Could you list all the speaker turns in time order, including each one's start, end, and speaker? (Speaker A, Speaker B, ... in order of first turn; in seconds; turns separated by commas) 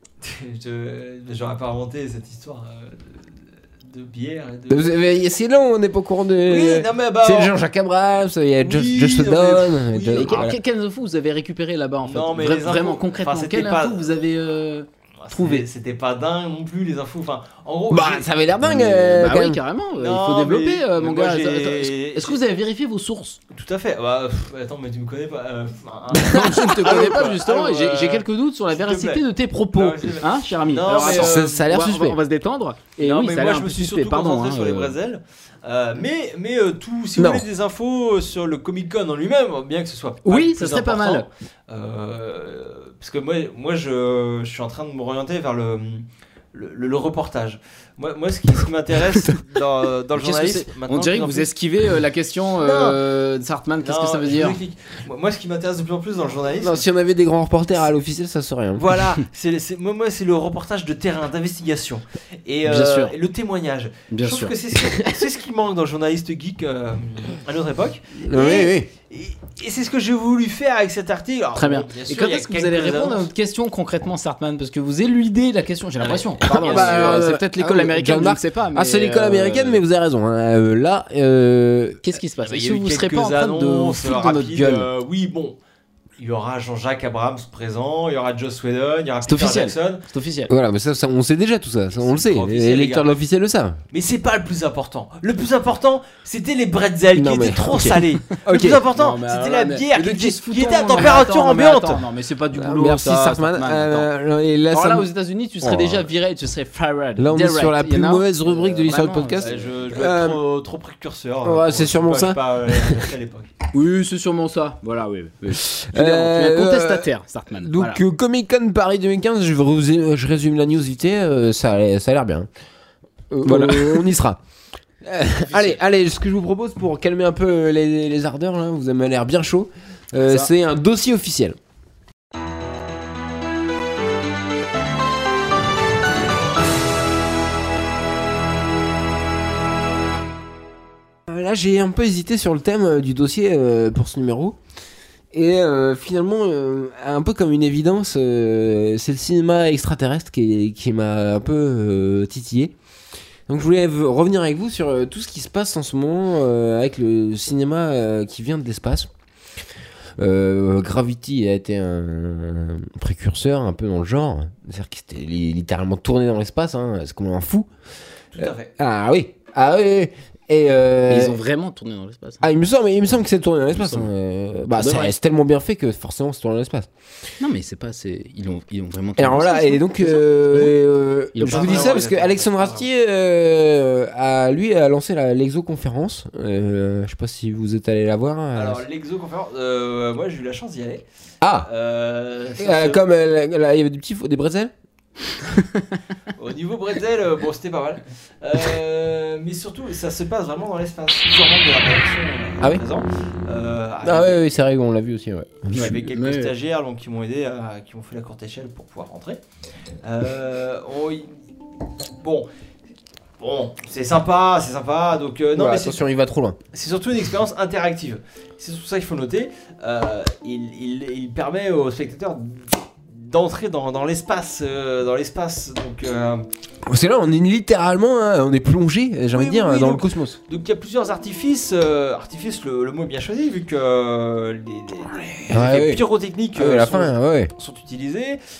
Speaker A: 0.2-4.9, Speaker B: 4.7-10.6, Speaker A: 6.4-7.5, Speaker A: 8.6-10.4, Speaker C: 10.1-15.7, Speaker A: 12.0-14.1, Speaker A: 15.2-18.3, Speaker B: 17.9-19.6, Speaker C: 18.7-23.4, Speaker A: 19.9-22.4, Speaker A: 23.5-31.6, Speaker C: 26.1-34.9, Speaker B: 31.0-32.2, Speaker A: 33.0-51.5, Speaker B: 37.1-37.5, Speaker C: 40.2-41.3, Speaker C: 50.1-54.6, Speaker A: 52.6-53.0, Speaker A: 53.8-56.8, Speaker B: 56.6-58.9, Speaker A: 58.8-73.3, Speaker C: 62.6-63.1, Speaker C: 64.1-64.5, Speaker B: 68.2-68.9, Speaker C: 71.5-79.8, Speaker A: 76.0-77.3, Speaker B: 76.5-82.1, Speaker C: 82.0-84.9, Speaker A: 82.4-85.6, Speaker A: 86.2-90.0, Speaker C: 89.3-90.5, Speaker B: 90.5-93.8, Speaker A: 91.9-93.1, Speaker A: 93.9-102.0, Speaker B: 97.1-98.8, Speaker C: 97.7-104.1, Speaker B: 102.5-105.1, Speaker C: 104.7-109.6, Speaker B: 105.6-106.1, Speaker B: 107.2-110.4, Speaker A: 109.4-113.5, Speaker B: 111.4-113.1, Speaker C: 113.7-118.0, Speaker B: 115.5-122.5, Speaker B: 123.3-124.4, Speaker C: 123.4-124.1, Speaker B: 125.0-131.6, Speaker C: 125.5-125.8, Speaker C: 130.2-130.5, Speaker B: 141.3-144.6, Speaker B: 145.3-152.7, Speaker B: 153.5-159.1, Speaker B: 160.2-167.7, Speaker A: 168.3-168.7, Speaker B: 168.4-171.4, Speaker C: 171.1-172.4, Speaker B: 172.4-176.9, Speaker C: 173.8-174.1, Speaker C: 174.7-175.1, Speaker C: 177.4-180.7, Speaker B: 179.2-188.8, Speaker C: 181.3-182.0, Speaker A: 181.5-182.9, Speaker A: 188.5-191.0, Speaker B: 191.4-191.7, Speaker A: 191.6-193.0, Speaker B: 192.6-194.7, Speaker A: 196.3-204.4, Speaker B: 204.0-206.0, Speaker A: 205.7-209.4, Speaker C: 205.7-206.5, Speaker A: 210.0-211.3, Speaker A: 212.2-212.5, Speaker A: 213.4-216.0, Speaker B: 215.5-216.6, Speaker A: 216.7-226.4, Speaker B: 226.8-230.4, Speaker A: 229.3-238.4, Speaker B: 235.5-237.5